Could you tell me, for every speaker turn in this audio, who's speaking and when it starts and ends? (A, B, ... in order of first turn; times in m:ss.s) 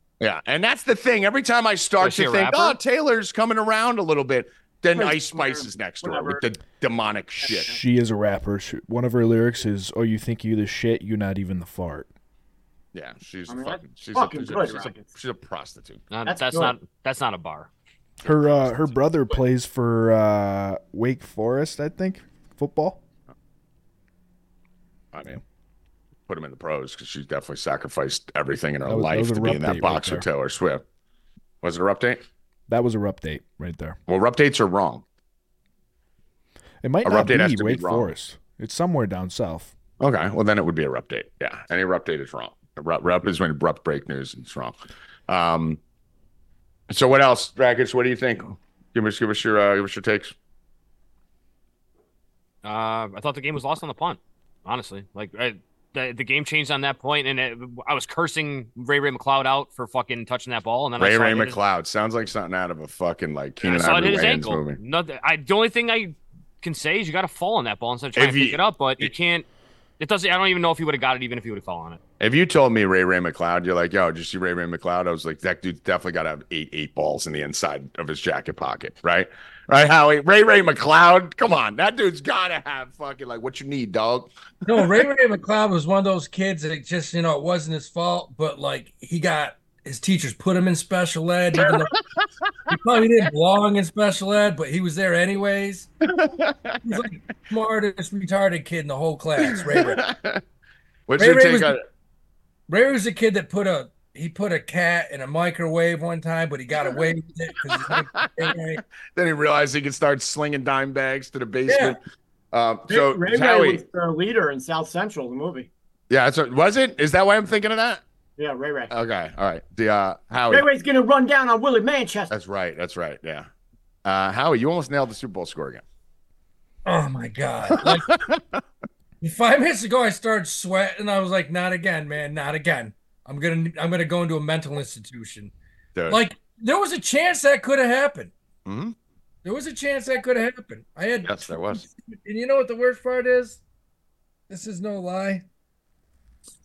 0:00.2-0:07.8 A
0:02.0-0:02.8 B
0:05.0-0:06.4 C
0:07.5-0:12.1 D
0:12.9-0:16.0 A
0:13.5-0:15.1 C
0:16.1-0:17.7 B
0:16.3-0:16.8 C
0:18.2-0:23.0 D
0:25.1-0:25.4 A
0:26.3-0:30.8 A
0:28.9-0:30.3 D
0:31.6-0:32.2 A
0:32.7-0:34.0 D
0:34.1-0:35.0 A
0:36.8-0:39.7 D
0:37.0-0:38.1 A
0:40.0-0:44.8 A
0:45.3-0:45.8 A
0:46.9-0:50.3 A
0:52.6-1:01.6 B
1:01.0-1:04.8 A
1:03.6-1:09.5 B
1:08.2-1:09.1 A
1:10.0-1:12.0 B
1:12.2-1:24.8 A
1:24.6-1:32.0 E
1:31.6-1:31.9 A
1:32.7-1:35.9 E
1:36.0-1:37.0 A
1:36.8-1:40.0 E
1:39.4-1:40.4 A
1:41.1-1:41.8 A
1:41.2-1:41.8 E
1:42.7-1:48.8 E
1:47.7-1:48.6 A
1:49.2-1:52.0 A
1:51.7-1:52.0 E
1:52.5-1:53.8 A
1:52.9-1:55.7 C
1:56.1-1:58.0 A
1:58.4-1:58.9 C
1:58.9-2:00.7 A
2:00.5-2:02.3 C
2:02.3-2:03.5 A
2:04.0-2:05.8 A
2:06.8-2:08.1 E
2:07.8-2:08.6 A
2:09.2-2:15.5 E
2:16.0-2:16.2 A
2:16.1-2:18.3 E
2:18.7-2:19.0 A
2:19.4-2:23.6 E
2:21.2-2:21.8 A
2:24.5-2:25.4 E